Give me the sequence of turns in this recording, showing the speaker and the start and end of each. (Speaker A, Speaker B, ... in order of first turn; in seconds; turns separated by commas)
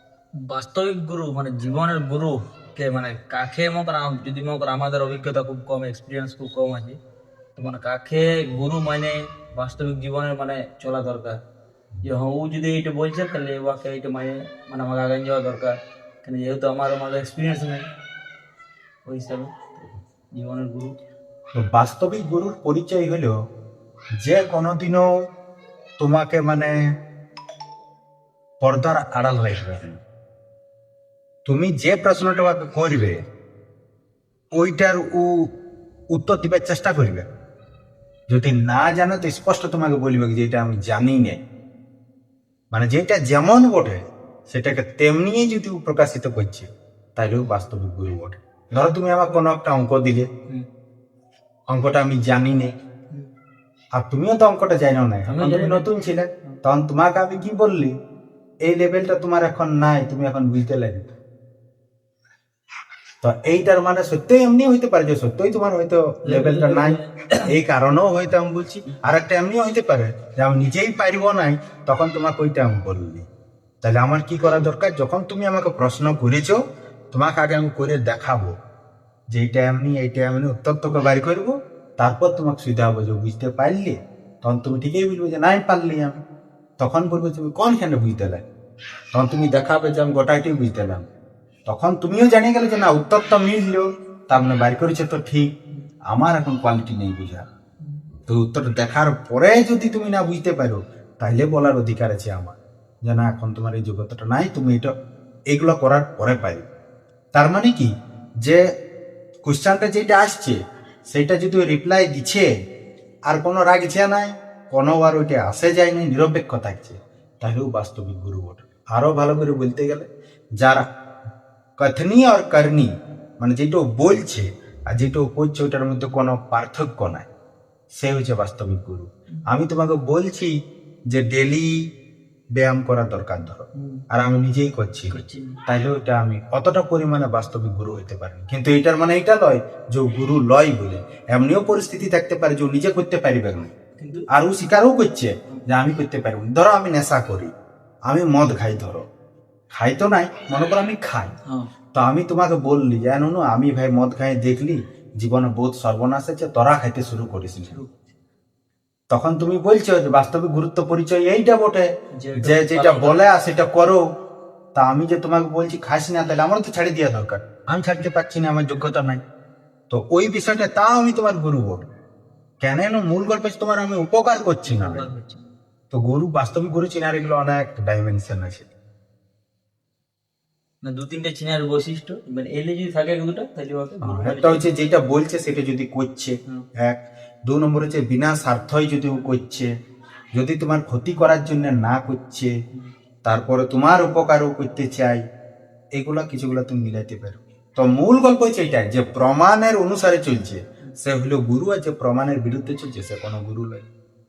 Speaker A: 0.4-7.0, Speaker A: 7.5-11.4, Speaker A: 12.0-17.9, Speaker A: 19.1-20.9, Speaker B: 21.5-23.4, Speaker B: 24.2-25.1, Speaker B: 26.0-26.9, Speaker B: 28.6-30.0, Speaker B: 31.4-33.2, Speaker B: 34.5-35.5, Speaker B: 36.1-37.3, Speaker B: 38.3-41.4, Speaker B: 42.7-50.3, Speaker B: 51.7-52.7, Speaker B: 53.9-57.9, Speaker A: 55.3-55.9, Speaker B: 58.6-61.1, Speaker B: 63.2-73.3, Speaker A: 66.2-67.5, Speaker B: 73.8-78.5, Speaker B: 79.3-86.2, Speaker B: 86.8-88.4, Speaker B: 89.1-91.1, Speaker B: 91.7-95.5, Speaker B: 96.1-97.4, Speaker B: 98.3-104.9, Speaker B: 105.5-106.6, Speaker B: 107.3-107.9, Speaker B: 109.4-110.6, Speaker B: 111.1-112.5, Speaker B: 113.3-120.1, Speaker B: 120.6-120.8, Speaker B: 121.8-127.3, Speaker B: 128.0-130.5, Speaker B: 131.1-131.8, Speaker B: 132.5-143.7, Speaker A: 133.7-134.0, Speaker A: 135.1-135.6, Speaker A: 144.0-144.3, Speaker B: 144.3-147.5, Speaker B: 148.1-149.1, Speaker B: 149.7-151.3, Speaker B: 151.9-157.8, Speaker A: 157.7-158.0, Speaker B: 159.1-164.0, Speaker A: 162.1-163.2, Speaker B: 164.8-169.2, Speaker B: 169.9-171.8, Speaker B: 172.6-175.1, Speaker A: 174.6-175.5, Speaker B: 175.9-178.7, Speaker A: 180.8-184.7, Speaker B: 184.0-189.7, Speaker B: 190.3-192.5, Speaker B: 193.2-195.2, Speaker B: 195.9-203.8